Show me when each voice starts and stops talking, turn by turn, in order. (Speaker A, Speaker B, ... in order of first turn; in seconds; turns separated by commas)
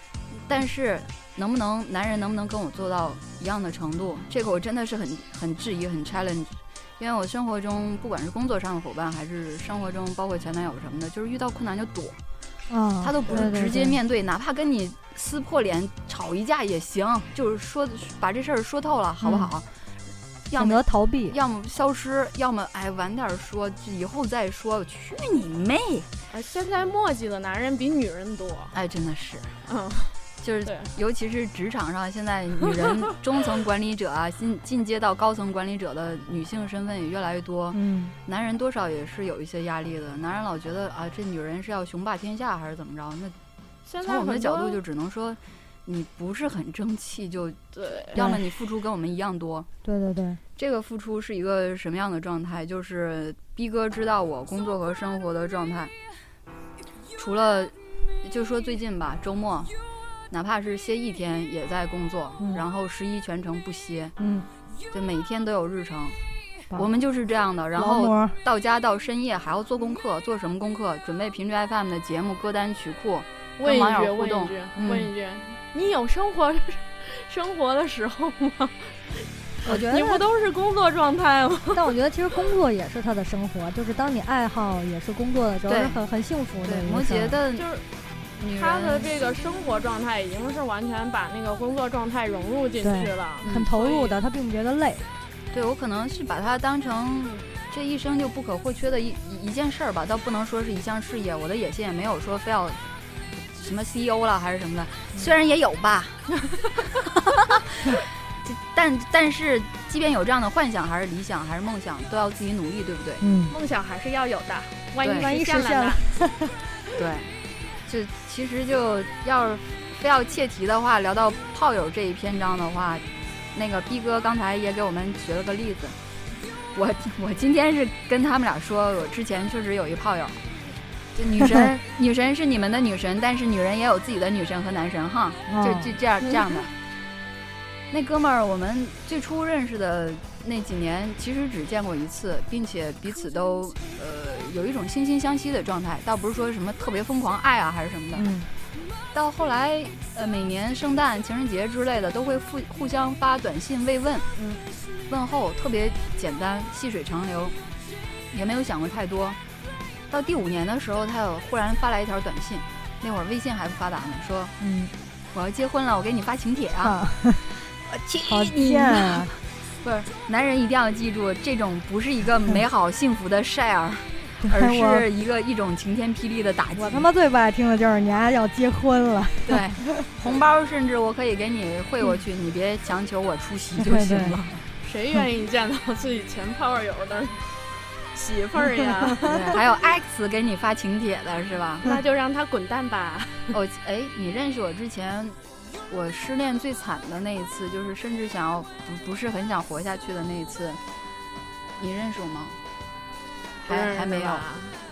Speaker A: 0.3-12.2, Speaker B: 12.7-14.0, Speaker A: 13.0-19.7, Speaker B: 19.2-19.5, Speaker A: 20.5-26.1, Speaker B: 20.6-21.4, Speaker C: 26.3-28.7, Speaker A: 28.7-29.6, Speaker C: 29.7-30.9, Speaker A: 30.4-43.4, Speaker B: 37.7-38.1, Speaker C: 43.9-44.8, Speaker A: 44.0-47.6, Speaker C: 47.7-48.3, Speaker A: 48.1-49.7, Speaker B: 49.8-50.4, Speaker A: 50.6-55.9, Speaker A: 57.2-59.7, Speaker A: 60.3-64.2, Speaker B: 64.2-64.5, Speaker A: 64.9-66.2, Speaker A: 66.7-75.1, Speaker B: 67.8-68.4, Speaker C: 73.6-82.0, Speaker B: 79.6-80.3, Speaker B: 81.7-87.4, Speaker A: 85.7-86.0, Speaker A: 86.6-87.7, Speaker C: 87.6-87.9, Speaker A: 88.4-89.2, Speaker C: 88.4-94.2, Speaker B: 92.8-95.1, Speaker A: 93.4-93.7, Speaker A: 95.5-102.8, Speaker A: 103.5-106.3, Speaker A: 107.1-113.2, Speaker B: 113.2-113.6, Speaker C: 113.5-116.1, Speaker A: 115.0-115.3, Speaker B: 115.2-116.6, Speaker A: 117.0-117.3, Speaker A: 117.9-126.0, Speaker A: 126.7-130.4, Speaker A: 131.2-136.7, Speaker B: 135.5-135.9, Speaker A: 137.9-148.3, Speaker B: 148.2-148.5, Speaker A: 149.1-154.3, Speaker B: 154.4-154.6, Speaker A: 155.1-157.6, Speaker A: 158.3-159.4, Speaker A: 160.1-164.5, Speaker B: 164.6-164.9, Speaker A: 165.3-167.0, Speaker B: 166.8-167.5, Speaker A: 167.7-177.1, Speaker B: 168.3-169.3, Speaker B: 174.4-175.1, Speaker B: 176.8-180.1, Speaker A: 179.5-184.7, Speaker B: 183.8-184.4, Speaker C: 184.8-187.5, Speaker C: 188.1-189.6, Speaker A: 189.2-191.9, Speaker C: 191.8-193.6, Speaker A: 193.5-200.8, Speaker A: 201.8-202.6, Speaker A: 203.6-204.4, Speaker C: 203.7-204.8